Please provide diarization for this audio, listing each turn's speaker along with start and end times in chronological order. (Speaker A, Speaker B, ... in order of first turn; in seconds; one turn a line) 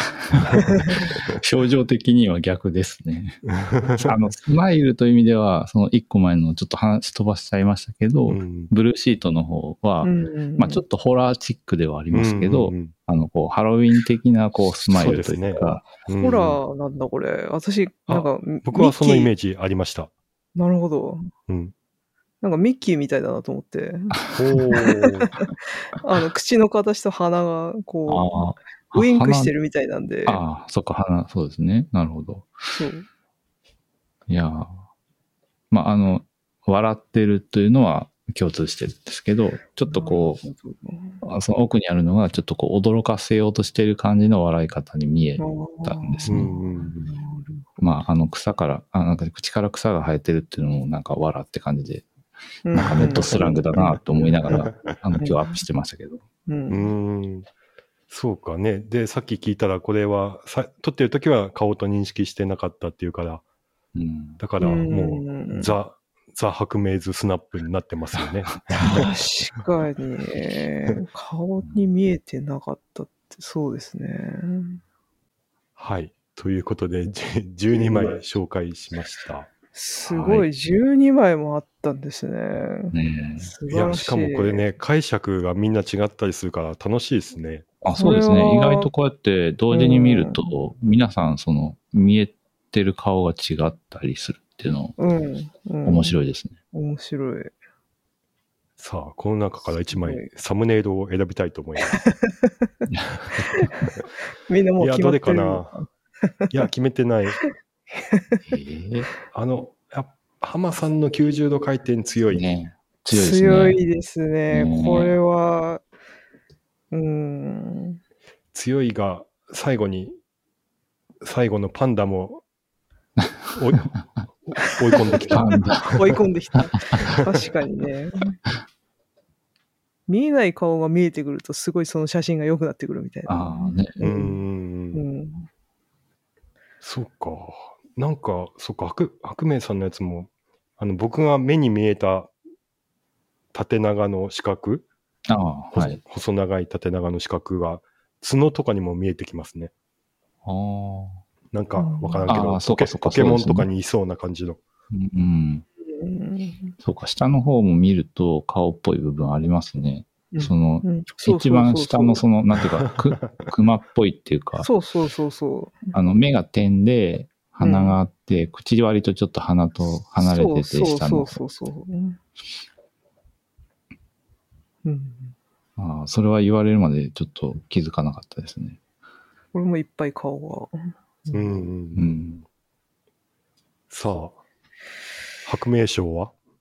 Speaker A: 0.2-3.4
Speaker B: 0.3-1.3
Speaker C: 0.6-1.1
Speaker B: 3.5-4.1
Speaker A: 4.0-15.9
Speaker B: 8.3-8.7
Speaker C: 10.0-10.8
Speaker B: 12.1-12.9
Speaker B: 14.9-16.6
Speaker C: 16.2-19.3
Speaker B: 18.1-20.1
Speaker C: 20.6-21.3
Speaker B: 21.5-21.7
Speaker C: 22.4-24.2
Speaker B: 24.4-25.3
Speaker C: 24.7-30.4
Speaker A: 28.1-29.5
Speaker A: 30.3-32.5
Speaker C: 32.8-33.1
Speaker A: 34.3-34.7
Speaker A: 35.7-40.4
Speaker C: 39.9-41.2
Speaker A: 41.2-46.6
Speaker C: 45.4-47.9
Speaker B: 46.3-47.1
Speaker A: 47.8-52.1
Speaker C: 52.6-54.0
Speaker A: 52.7-56.2
Speaker C: 55.2-55.6
Speaker C: 56.5-56.9
Speaker B: 56.7-57.5
Speaker B: 58.1-63.4
Speaker A: 64.0-64.4
Speaker B: 64.4-69.2
Speaker C: 64.6-65.7
Speaker C: 68.8-74.8
Speaker A: 68.8-69.1
Speaker B: 75.8-79.5
Speaker C: 79.7-84.6
Speaker A: 80.1-80.5
Speaker A: 82.9-83.5
Speaker B: 83.7-87.7
Speaker A: 87.8-95.0
Speaker C: 88.0-88.9
Speaker C: 89.7-90.5
Speaker C: 95.0-96.2
Speaker A: 95.8-96.6
Speaker C: 96.7-97.5
Speaker B: 98.8-102.0
Speaker C: 100.0-100.3
Speaker C: 101.8-102.7
Speaker A: 102.9-103.8
Speaker C: 103.4-103.7
Speaker C: 104.5-106.6
Speaker B: 104.8-105.7
Speaker B: 106.5-107.4
Speaker C: 107.4-108.4
Speaker A: 108.5-109.1
Speaker B: 109.3-112.4
Speaker A: 112.3-113.8
Speaker C: 113.1-115.8
Speaker A: 114.5-115.2
Speaker C: 116.9-118.0
Speaker B: 118.5-120.2
Speaker B: 121.2-122.4
Speaker B: 123.5-123.9
Speaker B: 124.5-126.2
Speaker C: 124.7-128.4
Speaker A: 125.3-125.8
Speaker A: 126.7-127.1
Speaker C: 130.1-134.4
Speaker A: 133.3-134.1
Speaker B: 134.0-135.0
Speaker C: 134.9-135.5
Speaker B: 136.8-142.3
Speaker B: 143.5-144.9
Speaker A: 145.3-146.0
Speaker B: 145.7-149.7
Speaker A: 150.4-151.2
Speaker B: 151.5-154.6
Speaker C: 151.8-152.4
Speaker A: 152.3-153.7
Speaker A: 154.9-155.7
Speaker C: 155.8-156.7
Speaker A: 156.8-164.7
Speaker C: 160.3-162.2
Speaker C: 164.6-165.9
Speaker A: 165.9-171.4
Speaker C: 167.6-168.0
Speaker C: 170.2-172.2
Speaker C: 174.8-175.3
Speaker A: 175.8-178.8
Speaker C: 179.5-181.5
Speaker B: 181.3-182.1
Speaker A: 181.9-182.4
Speaker B: 183.9-184.4
Speaker B: 185.4-186.3